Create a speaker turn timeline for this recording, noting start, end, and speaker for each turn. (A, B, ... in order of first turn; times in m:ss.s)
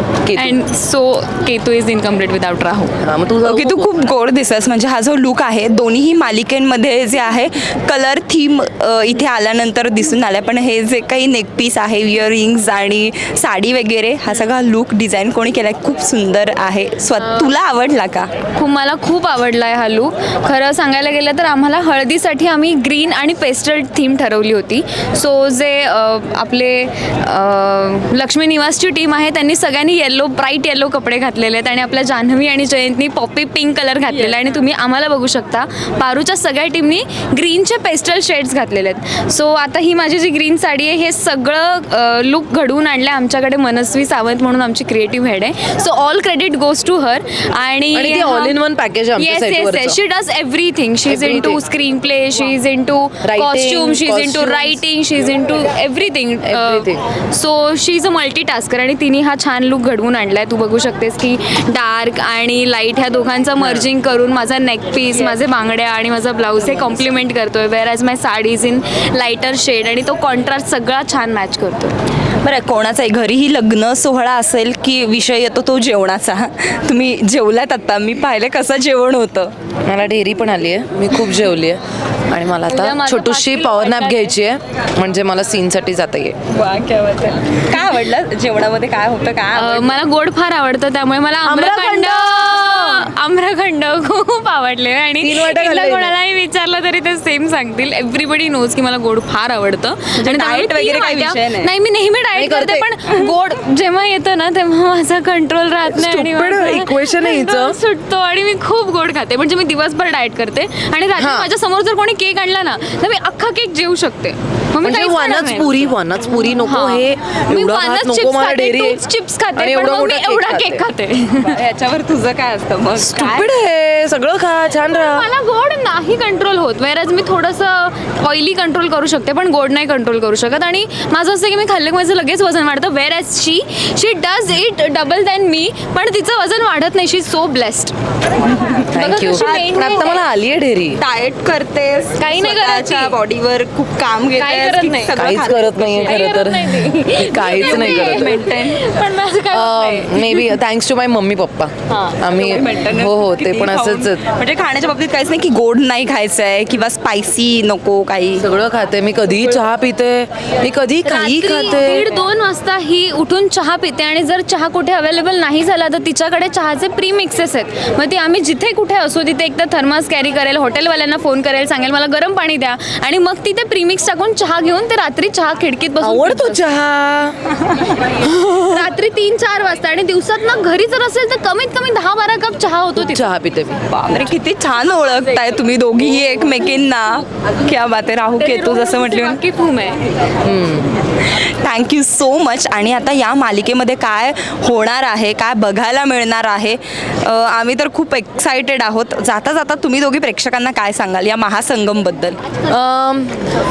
0:00.2-0:00.6 A
0:00.4-0:03.0 B
0:03.0-0:03.9 A
0:03.4-0:18.3 C
0:17.2-0:17.5 B
0:18.6-0:48.6 B
0:47.9-0:50.0 A
0:49.2-1:11.9 B
0:51.1-0:51.6 A
0:53.2-0:54.8 A
0:56.5-0:57.0 A
1:03.6-1:03.9 A
1:06.6-1:07.0 A
1:12.4-1:19.5 C
1:19.9-1:26.4 A
1:22.7-1:24.4 B
1:26.5-1:30.0 C
1:29.5-1:55.9 B
1:31.4-1:33.1 A
1:35.2-1:36.2 A
1:40.2-1:41.7 C
1:42.4-1:42.9 A
1:45.9-1:47.8 A
1:51.2-1:51.5 A
1:54.8-1:59.0 A
1:56.6-2:01.6 B
1:59.6-2:00.9 A
2:01.4-2:03.5 C
2:03.0-2:05.3 A
2:04.9-2:17.9 B
2:18.9-2:20.2 B
2:18.9-2:21.0 A
2:19.4-2:20.1 C
2:21.0-2:26.2 C
2:22.2-2:23.2 B
2:24.4-2:25.2 B
2:25.2-2:28.4 A
2:25.8-2:30.6 B
2:27.5-2:28.8 C
2:29.5-2:34.3 A
2:32.2-2:38.5 C
2:38.4-2:42.1 A
2:41.0-2:56.6 B
2:56.0-2:57.4 A
2:58.5-3:03.3 B
3:03.0-3:03.8 A
3:03.9-3:09.4 C
3:08.4-3:10.0 B
3:10.4-3:10.9 A
3:11.2-3:22.4 C
3:22.7-3:23.4 A